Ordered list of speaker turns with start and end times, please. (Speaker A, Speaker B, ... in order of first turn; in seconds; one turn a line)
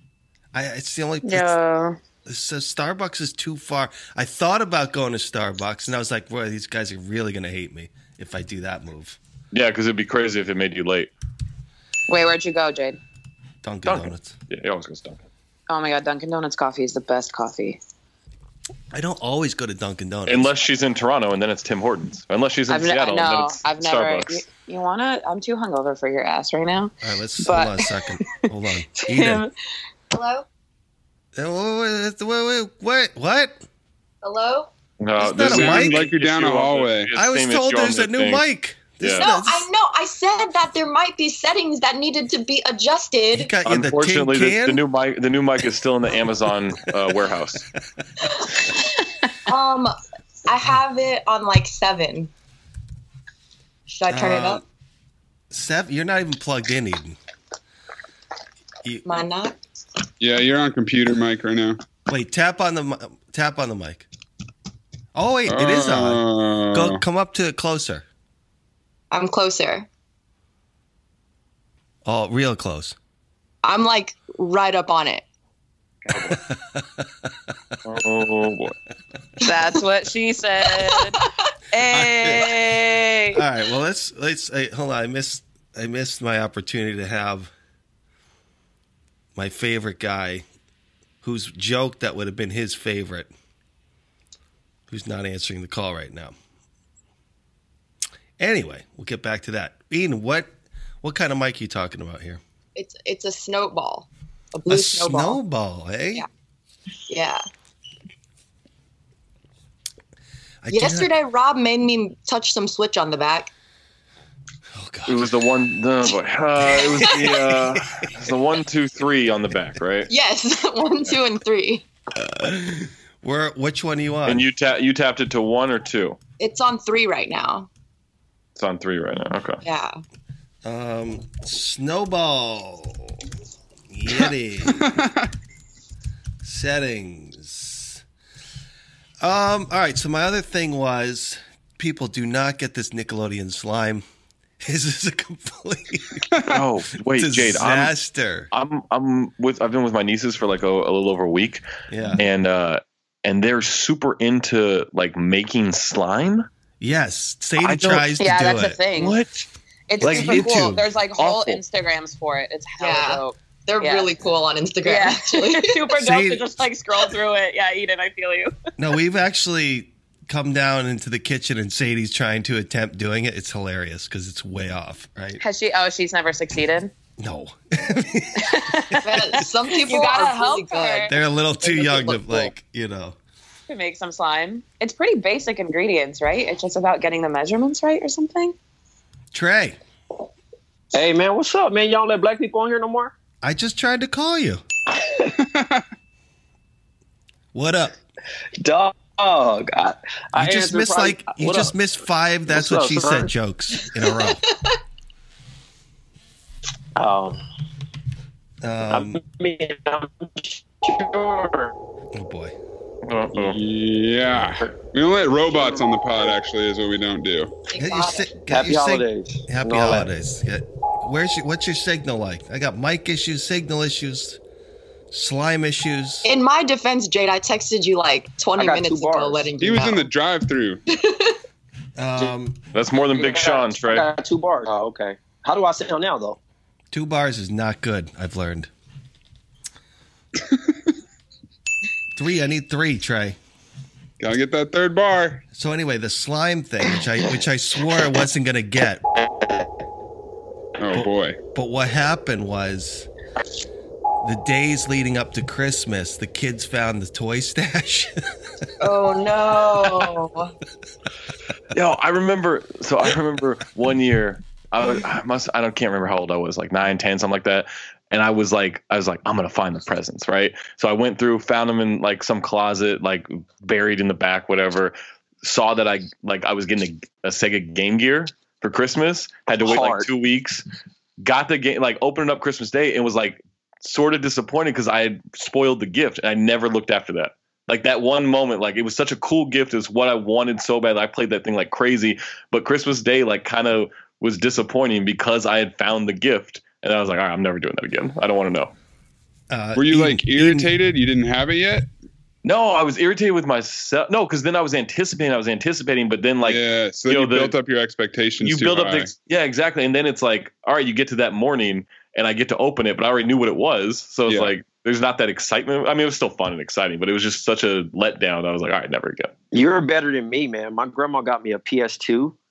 Speaker A: 0.5-1.6
Speaker B: 1.2-2.0
Speaker A: 2.2-9.2
Speaker C: 9.5-11.1
Speaker B: 12.1-13.0
Speaker A: 13.6-14.3
Speaker C: 13.8-15.2
Speaker B: 15.7-17.8
Speaker A: 18.9-20.5
Speaker C: 20.3-24.4
Speaker B: 22.7-27.8
Speaker A: 27.0-29.5
Speaker B: 28.9-29.5
Speaker D: 30.1-30.4
Speaker A: 31.3-33.6
Speaker D: 34.2-34.7
Speaker C: 35.0-38.4
Speaker A: 35.2-36.1
Speaker E: 35.4-37.1
Speaker A: 37.1-39.7
Speaker C: 39.0-39.3
Speaker D: 39.2-43.5
Speaker A: 43.3-44.8
Speaker C: 43.6-47.7
Speaker D: 49.5-49.9
Speaker D: 50.5-52.3
Speaker D: 53.9-54.6
Speaker A: 54.1-54.6
Speaker A: 55.5-57.2
Speaker A: 58.8-59.2
Speaker D: 59.0-59.5
Speaker E: 60.2-61.8
Speaker A: 62.1-64.1
Speaker A: 65.1-66.2
Speaker E: 65.5-67.0
Speaker A: 66.7-68.0
Speaker D: 69.1-69.9
Speaker A: 72.0-73.0
Speaker D: 73.6-75.2
Speaker C: 76.1-76.4
Speaker A: 76.3-77.5
Speaker C: 77.8-78.7
Speaker B: 79.4-81.2
Speaker B: 81.7-83.4
Speaker A: 81.9-82.5
Speaker A: 83.3-87.5
Speaker A: 89.3-90.5
Speaker A: 91.2-93.3
Speaker A: 94.9-96.3
Speaker A: 98.4-102.4
Speaker D: 102.7-105.4
Speaker A: 104.7-106.3
Speaker D: 107.1-107.4
Speaker A: 110.6-111.1
Speaker D: 110.7-113.5
Speaker A: 114.7-115.3
Speaker C: 115.1-120.1
Speaker D: 116.8-117.2
Speaker A: 116.8-117.8
Speaker D: 120.1-121.8
Speaker A: 122.1-124.5
Speaker C: 124.2-126.2
Speaker D: 126.4-127.7
Speaker C: 128.6-129.6
Speaker D: 129.6-129.9
Speaker A: 130.6-133.2
Speaker A: 133.9-134.8
Speaker E: 134.8-135.3
Speaker A: 136.4-138.0
Speaker A: 139.2-144.0
Speaker A: 144.6-146.2
Speaker C: 146.5-148.0
Speaker A: 147.1-148.5
Speaker C: 148.5-151.6
Speaker A: 151.9-152.3
Speaker C: 152.1-156.5
Speaker A: 156.8-158.8
Speaker C: 157.6-158.1
Speaker B: 158.2-159.1
Speaker C: 159.0-159.5
Speaker B: 159.9-164.1
Speaker A: 160.0-160.8
Speaker C: 160.0-160.5
Speaker C: 161.2-161.6
Speaker D: 162.8-165.7
Speaker B: 164.8-168.5
Speaker A: 166.0-166.6
Speaker A: 168.8-175.4
Speaker B: 175.4-176.9
Speaker A: 177.2-179.4
Speaker B: 178.4-179.0
Speaker D: 178.9-181.1
Speaker B: 179.8-182.5
Speaker A: 181.1-183.2
Speaker B: 183.7-188.6
Speaker A: 189.3-189.8
Speaker F: 190.9-193.1
Speaker A: 193.4-194.6
Speaker F: 194.9-195.3
Speaker E: 195.4-195.8
Speaker A: 197.5-198.0
Speaker F: 198.6-201.7
Speaker A: 200.3-204.4
Speaker F: 202.5-203.3
Speaker D: 204.2-204.7
Speaker F: 206.9-207.4
Speaker A: 208.6-209.2
Speaker F: 208.9-211.7
Speaker A: 212.1-212.5
Speaker C: 213.1-213.6
Speaker E: 213.3-217.5
Speaker F: 215.5-215.8
Speaker D: 217.7-218.3
Speaker A: 217.7-224.4
Speaker F: 218.5-220.1
Speaker A: 225.1-226.3
Speaker D: 226.2-230.1
Speaker F: 228.6-229.5
Speaker E: 229.6-230.8
Speaker D: 230.9-231.4
Speaker A: 232.0-232.6
Speaker C: 232.7-234.1
Speaker F: 233.1-236.4
Speaker A: 236.9-238.7
Speaker E: 240.4-240.7
Speaker A: 242.2-243.4
Speaker E: 244.2-245.4
Speaker A: 245.5-249.0
Speaker E: 250.8-251.4
Speaker A: 250.9-253.1
Speaker A: 254.2-258.1
Speaker D: 258.8-260.5
Speaker C: 261.7-280.6
Speaker F: 279.6-280.1
Speaker C: 281.2-298.7
Speaker A: 299.5-300.7
Speaker E: 299.8-301.9
Speaker C: 302.4-307.5
Speaker E: 306.4-309.1
Speaker C: 308.4-319.3
Speaker E: 314.3-314.5
Speaker F: 319.5-322.3